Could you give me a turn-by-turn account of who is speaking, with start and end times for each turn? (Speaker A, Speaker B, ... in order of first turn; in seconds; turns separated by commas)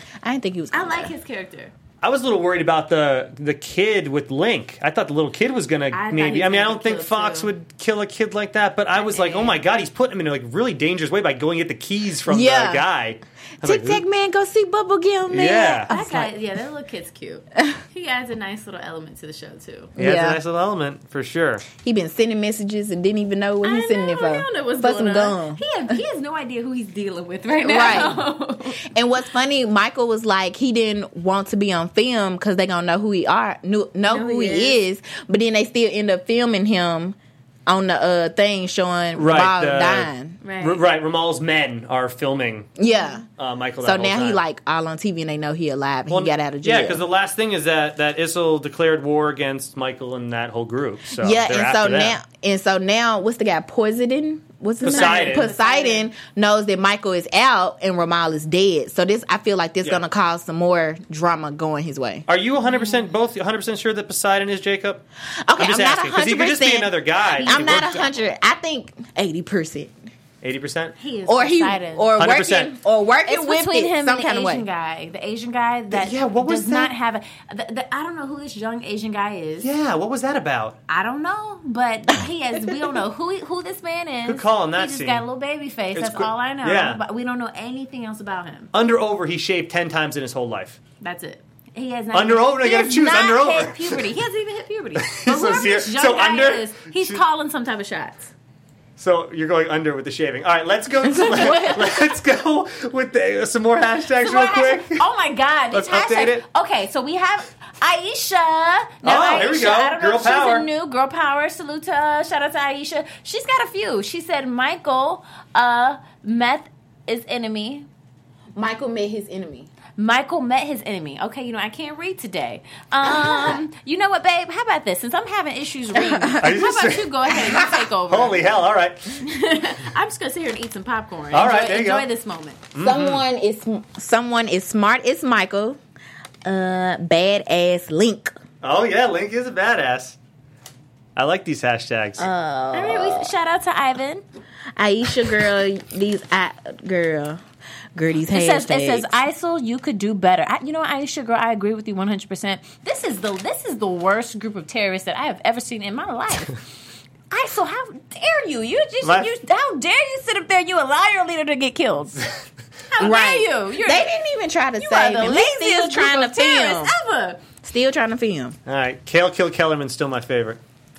Speaker A: 0.2-1.1, Speaker B: 0.7-1.7, Speaker C: 2.0-14.0, Speaker B: 5.9-7.5, Speaker B: 9.0-9.6, Speaker A: 12.3-12.8, Speaker A: 13.6-16.3, Speaker C: 15.3-15.9, Speaker B: 15.7-19.9, Speaker A: 19.9-20.4, Speaker C: 20.0-21.6, Speaker A: 21.8-25.6, Speaker B: 23.6-28.8, Speaker A: 27.6-28.3, Speaker A: 28.8-40.4, Speaker B: 34.1-34.8, Speaker C: 39.1-42.7, Speaker B: 40.4-40.8, Speaker A: 42.8-43.2, Speaker C: 43.4-44.4, Speaker A: 43.8-47.0, Speaker C: 46.1-52.2, Speaker A: 51.1-62.2, Speaker C: 54.8-55.5, Speaker B: 54.8-56.1, Speaker C: 62.3-65.0, Speaker B: 62.6-63.0, Speaker A: 65.5-69.9, Speaker C: 65.6-68.0, Speaker B: 67.3-68.1, Speaker C: 70.4-70.9, Speaker B: 71.0-72.1, Speaker A: 71.2-74.6, Speaker C: 72.2-72.7, Speaker B: 73.2-79.7, Speaker C: 75.9-76.9, Speaker C: 79.6-80.8, Speaker B: 80.9-88.7, Speaker C: 84.2-85.2, Speaker C: 85.9-87.0, Speaker C: 88.7-90.8, Speaker B: 91.0-98.3, Speaker C: 92.1-94.0, Speaker C: 95.0-97.2, Speaker C: 99.0-105.0, Speaker B: 101.2-101.7, Speaker B: 104.2-117.9, Speaker C: 105.7-106.4, Speaker C: 109.0-110.7, Speaker A: 118.5-119.7, Speaker B: 120.0-128.5, Speaker A: 123.1-123.5, Speaker A: 126.0-126.4, Speaker C: 126.4-127.1, Speaker C: 128.1-129.0, Speaker B: 129.2-132.7, Speaker C: 131.3-132.1, Speaker C: 132.7-133.2, Speaker A: 132.8-135.8, Speaker A: 136.4-138.3, Speaker C: 138.6-140.2, Speaker C: 141.2-142.3, Speaker A: 142.2-143.3, Speaker B: 142.7-144.2, Speaker A: 144.8-147.4, Speaker A: 147.9-149.1, Speaker B: 148.3-156.6, Speaker B: 157.3-162.2, Speaker C: 159.0-159.3, Speaker B: 162.9-164.2, Speaker A: 163.0-166.9, Speaker B: 164.8-167.4, Speaker A: 167.6-168.6, Speaker C: 168.7-170.6